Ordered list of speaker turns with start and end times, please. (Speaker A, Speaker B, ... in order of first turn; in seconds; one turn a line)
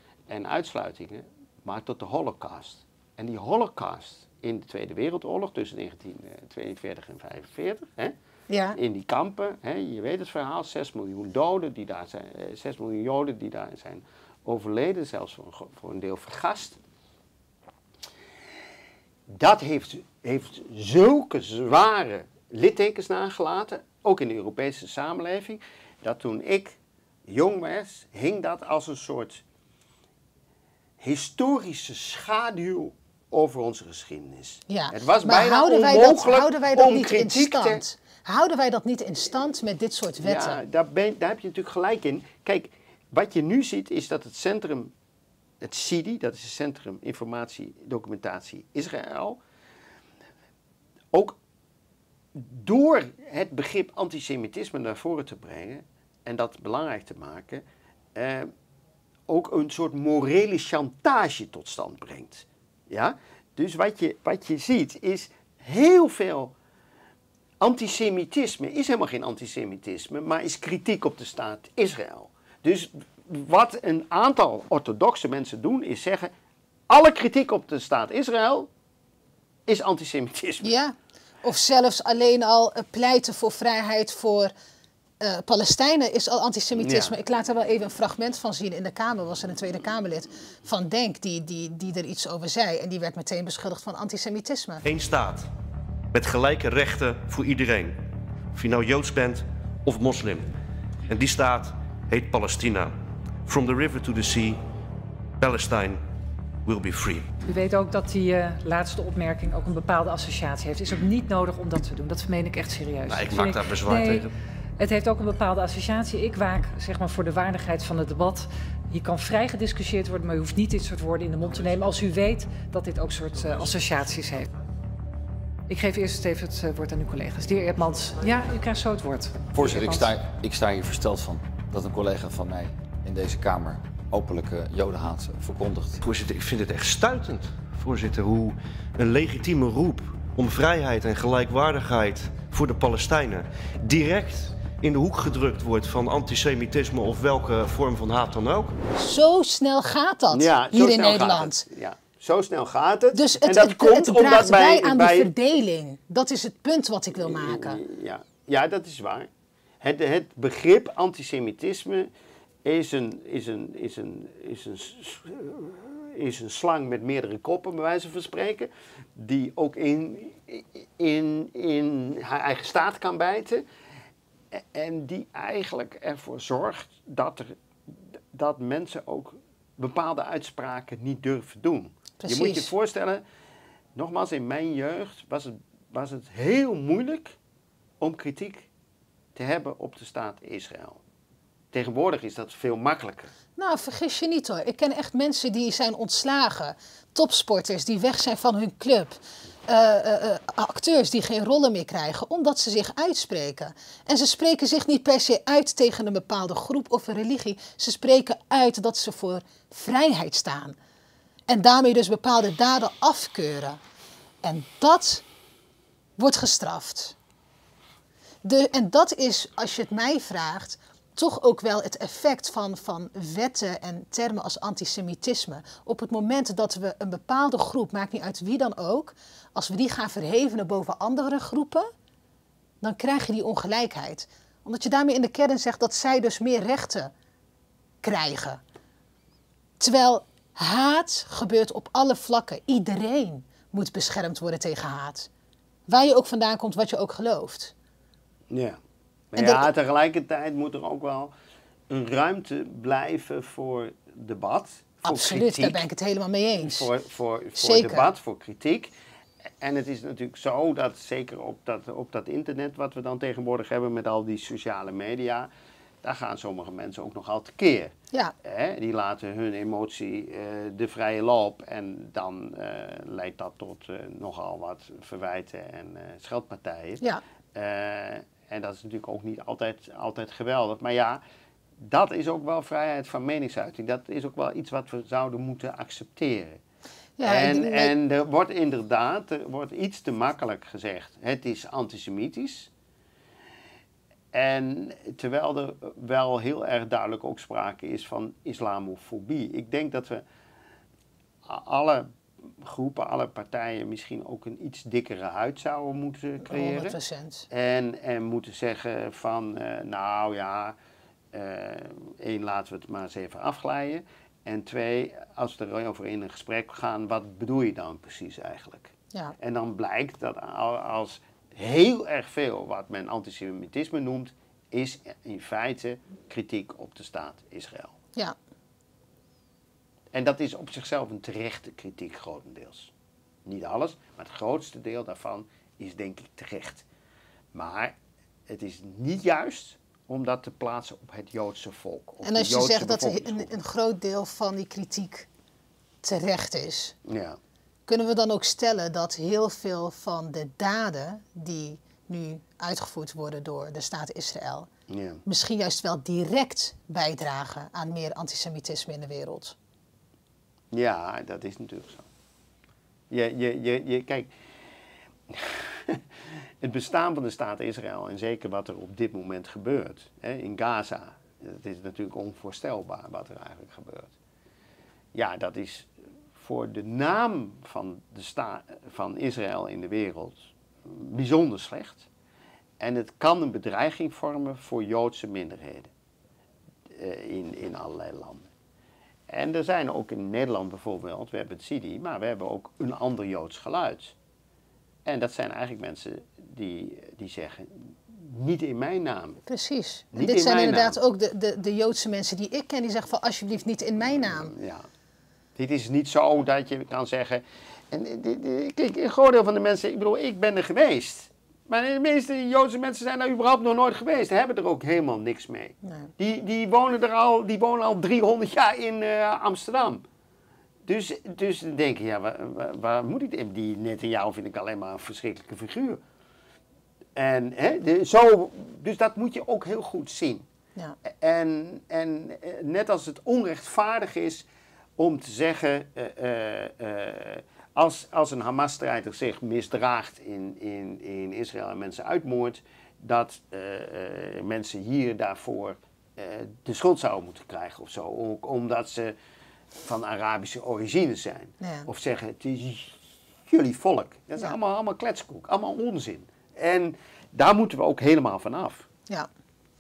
Speaker A: 0.3-8.1
Speaker B: 8.5-8.8
Speaker A: 8.7-16.8
Speaker A: 19.3-29.4
Speaker A: 31.0-37.8
Speaker B: 34.7-40.6
Speaker A: 40.2-44.9
Speaker A: 45.6-49.4
Speaker A: 51.1-51.4
Speaker A: 52.3-57.6
Speaker A: 58.1-58.5
Speaker A: 59.3-66.5
Speaker A: 67.6-76.3
Speaker A: 76.9-78.7
Speaker A: 79.7-80.7
Speaker B: 80.6-84.5
Speaker B: 85.2-94.8
Speaker A: 86.8-87.2
Speaker C: 94.8-95.5
Speaker C: 96.1-98.0
Speaker C: 98.5-100.5
Speaker C: 101.1-104.6
Speaker C: 105.4-106.0
Speaker C: 106.7-107.4
Speaker D: 107.4-124.5
Speaker C: 113.1-114.3
Speaker D: 125.7-130.2
Speaker E: 129.5-136.0
Speaker C: 136.0-148.8
Speaker B: 148.9-151.7
Speaker A: 150.3-155.3
Speaker B: 153.1-157.8
Speaker A: 157.2-159.3
Speaker A: 159.8-162.1
Speaker A: 162.6-173.7
Speaker A: 174.5-183.2
Speaker B: 182.2-182.7
Speaker A: 183.9-187.4
Speaker A: 188.0-188.7
Speaker A: 189.3-191.0
Speaker A: 191.7-193.3
Speaker B: 193.6-210.8
Speaker B: 211.5-213.8
Speaker B: 214.4-215.2
Speaker B: 216.2-217.2
Speaker B: 218.4-231.9
Speaker B: 232.8-237.1
Speaker B: 238.0-238.6
Speaker B: 239.8-245.3
Speaker B: 245.9-247.7
Speaker A: 248.5-248.8
Speaker A: 249.3-251.3
Speaker B: 249.4-249.7
Speaker A: 251.9-255.9
Speaker B: 255.0-256.9
Speaker A: 256.6-258.9
Speaker B: 257.6-258.1
Speaker A: 259.6-265.5
Speaker A: 266.0-281.2
Speaker A: 281.8-286.6
Speaker B: 287.2-287.9
Speaker A: 287.2-292.7
Speaker A: 294.3-300.2
Speaker A: 301.4-307.0
Speaker B: 306.4-307.5
Speaker A: 307.5-310.8
Speaker A: 311.3-327.9
Speaker A: 330.1-332.9
Speaker A: 333.4-336.9
Speaker A: 337.5-338.0
Speaker A: 338.5-343.5
Speaker B: 342.2-345.3
Speaker B: 346.0-347.0
Speaker A: 347.1-347.4
Speaker B: 347.9-354.7
Speaker A: 354.9-355.2
Speaker B: 355.2-359.6
Speaker A: 360.7-362.1
Speaker A: 363.1-364.3
Speaker A: 365.3-374.1
Speaker A: 375.1-382.1
Speaker A: 382.8-385.9
Speaker A: 386.9-388.5
Speaker A: 389.3-394.1
Speaker A: 395.1-399.4
Speaker B: 399.5-404.5
Speaker A: 400.1-401.0
Speaker A: 404.2-404.9
Speaker A: 405.6-420.1
Speaker B: 415.8-416.1
Speaker A: 420.9-426.0
Speaker A: 427.1-430.5
Speaker A: 431.1-434.4
Speaker A: 435.0-449.1
Speaker A: 449.8-458.9
Speaker B: 451.6-451.9